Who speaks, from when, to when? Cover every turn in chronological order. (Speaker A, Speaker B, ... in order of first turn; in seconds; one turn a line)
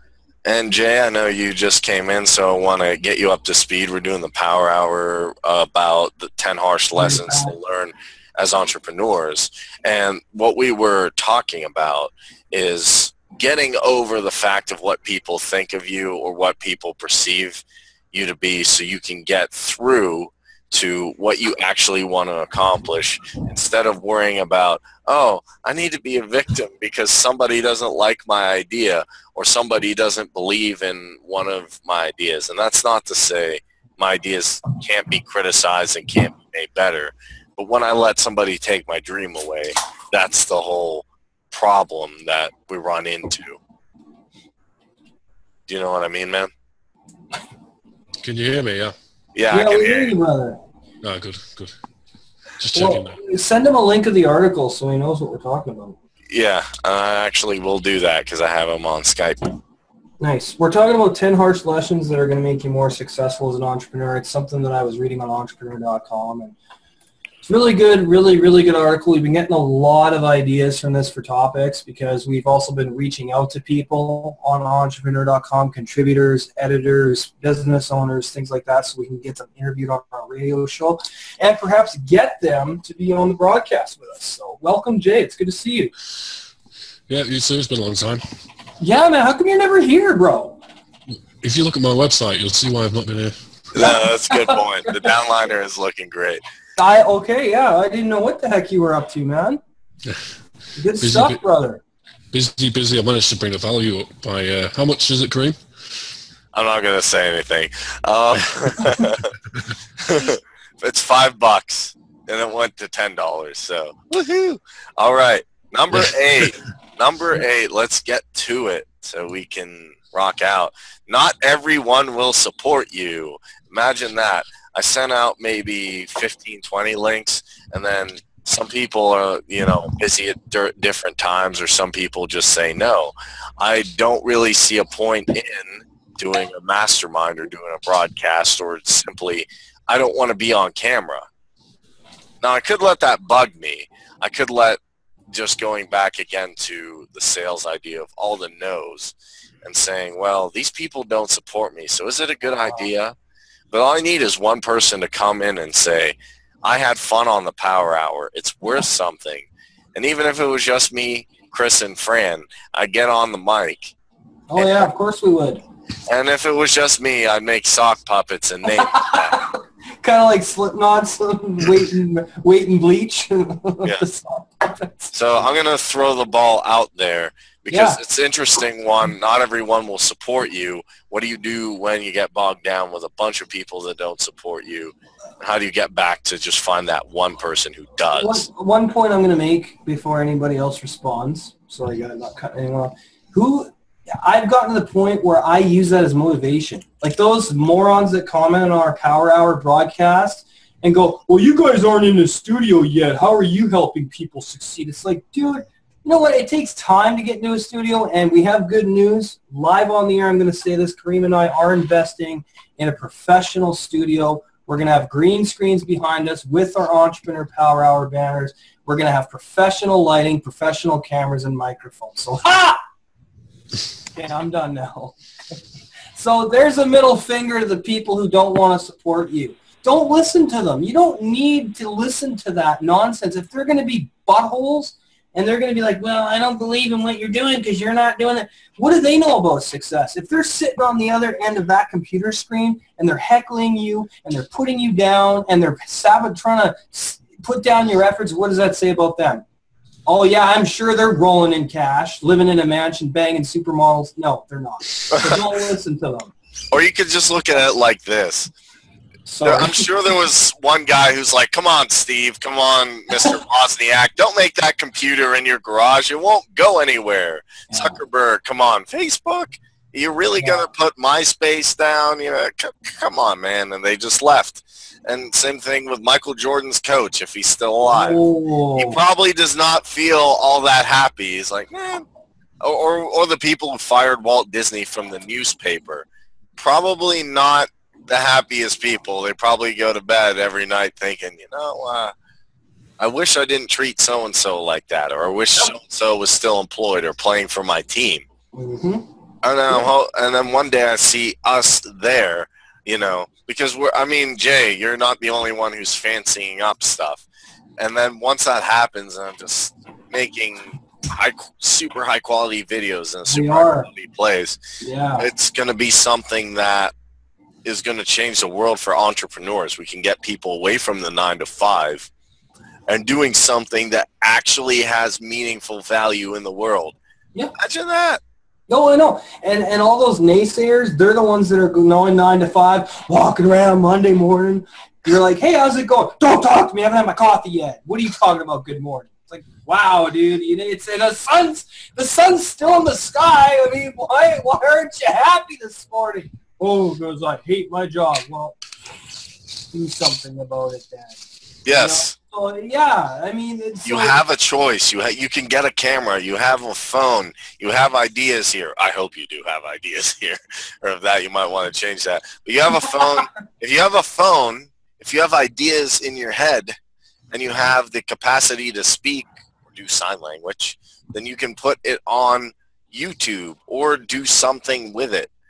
Speaker A: 0.5-43.6
Speaker B: 7.0-7.5
Speaker A: 45.7-46.5
Speaker C: 48.2-49.0
Speaker A: 49.3-50.1
Speaker B: 49.5-50.6
Speaker C: 51.0-51.7
Speaker C: 52.6-53.2
Speaker B: 52.7-56.0
Speaker A: 56.3-59.5
Speaker B: 60.2-66.5
Speaker B: 67.4-85.9
Speaker C: 87.1-88.2
Speaker B: 88.8-90.6
Speaker C: 91.4-93.4
Speaker A: 93.7-96.4
Speaker B: 93.8-95.0
Speaker B: 96.8-99.6
Speaker B: 100.8-101.8
Speaker C: 101.0-101.4
Speaker C: 102.3-105.6
Speaker A: 106.5-109.3
Speaker A: 110.0-141.2
Speaker A: 142.4-144.8
Speaker A: 145.3-153.1
Speaker A: 153.7-163.9
Speaker B: 164.5-165.6
Speaker A: 164.6-164.8
Speaker A: 166.1-169.4
Speaker B: 168.7-175.1
Speaker A: 175.1-188.4
Speaker B: 177.7-178.0
Speaker B: 188.1-193.7
Speaker B: 194.2-222.8
Speaker B: 224.1-225.2
Speaker B: 226.1-249.4
Speaker B: 250.1-256.3
Speaker A: 256.7-258.5
Speaker B: 259.2-259.9
Speaker A: 259.4-278.2
Speaker B: 267.7-268.0
Speaker B: 270.4-270.7
Speaker B: 277.9-279.0
Speaker A: 278.8-282.0
Speaker A: 282.6-292.1
Speaker A: 293.0-298.2
Speaker B: 298.5-299.1
Speaker A: 299.4-307.2
Speaker A: 307.8-314.6
Speaker B: 313.3-313.9
Speaker B: 314.8-315.3
Speaker A: 315.2-316.9
Speaker A: 317.6-322.1
Speaker A: 322.9-326.9
Speaker A: 327.6-328.2
Speaker B: 328.7-348.6
Speaker B: 349.7-351.2
Speaker A: 351.6-352.1
Speaker B: 351.7-354.2
Speaker A: 353.8-366.7
Speaker A: 367.3-375.3